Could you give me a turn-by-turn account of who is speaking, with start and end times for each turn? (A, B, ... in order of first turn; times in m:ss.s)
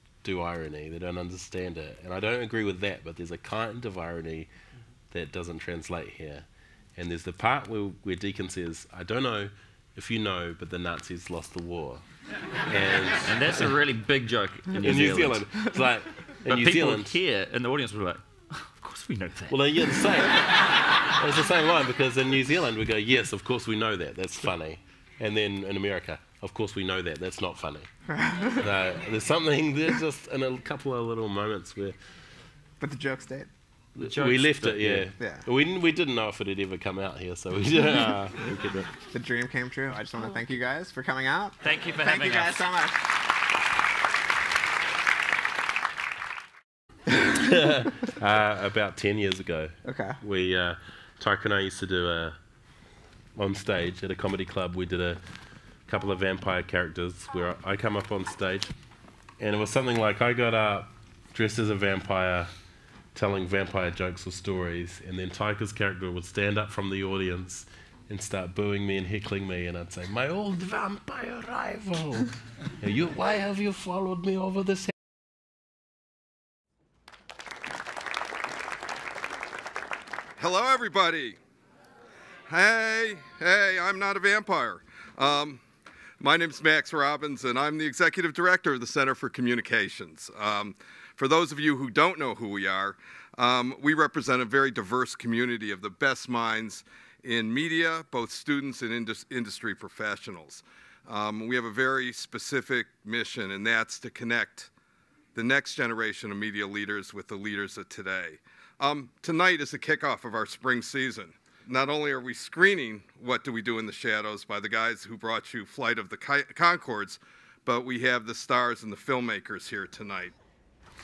0:00.2-0:04.5 A
0:05.1-0:06.4 A
0:07.0-0:12.0 A
0:12.7-0:13.7 A
0:13.2-0:15.5 B
0:14.7-0:17.2 A
0:16.5-0:19.6 B
0:19.5-0:20.4 A
0:21.2-0:27.9 A
0:28.1-0:28.7 C
0:28.6-0:31.9 A
0:32.8-0:33.5 C
0:34.0-0:38.9 A
0:34.0-0:35.1 B
0:35.2-0:35.4 C
0:39.1-0:43.0 C
0:41.6-0:42.6 B
0:47.3-0:52.4 A
0:49.8-0:50.2 C
0:53.4-0:55.2 A
0:55.9-0:58.7 A
0:59.4-1:02.5 A
1:03.1-1:14.9 A
1:20.4-1:21.4 D
1:22.5-1:25.6 D
1:26.2-1:44.7 D
1:45.3-2:00.3 D